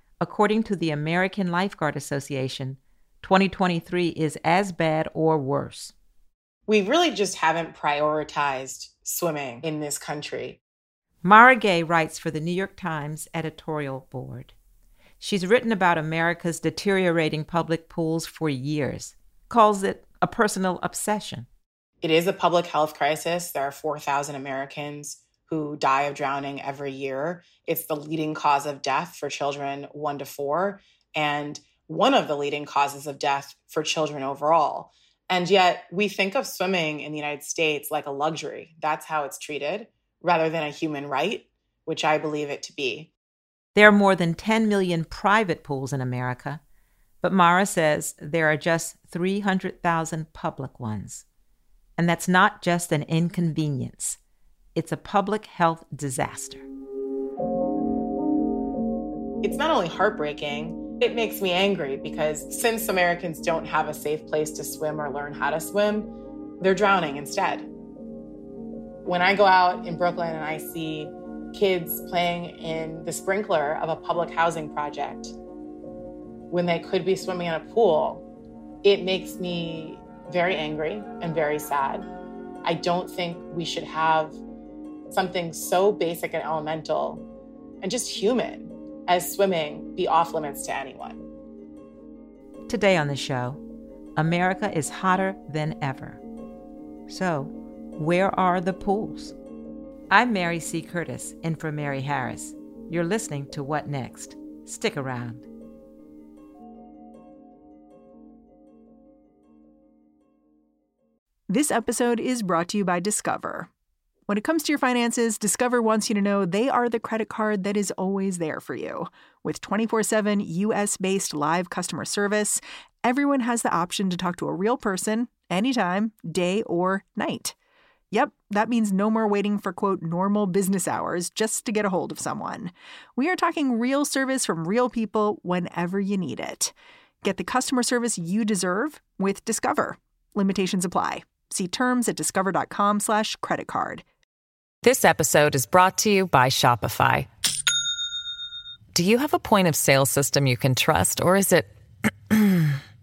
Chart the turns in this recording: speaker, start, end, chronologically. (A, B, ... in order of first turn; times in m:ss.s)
0:00.2-0:05.9 A
0:06.7-0:10.6 B
0:11.2-0:14.5 A
0:15.2-0:21.5 A
0:22.0-0:43.1 B
0:43.8-0:46.6 A
0:47.2-0:51.2 A
0:52.0-0:54.2 A
0:54.8-0:56.6 A
0:59.4-1:07.7 B
1:09.0-1:15.3 B
1:16.5-1:18.2 B
1:18.8-1:22.1 B
1:22.6-1:24.4 B
1:25.1-1:27.2 B
1:27.8-1:31.2 B
1:32.7-1:33.6 A
1:34.2-1:36.2 A
1:37.1-1:39.4 A
1:40.1-1:45.5 A
1:51.5-1:53.7 C
1:54.3-2:07.6 C
2:08.1-2:24.0 C
2:24.8-2:27.3 D
2:28.9-2:31.7 D
2:32.3-2:32.8 D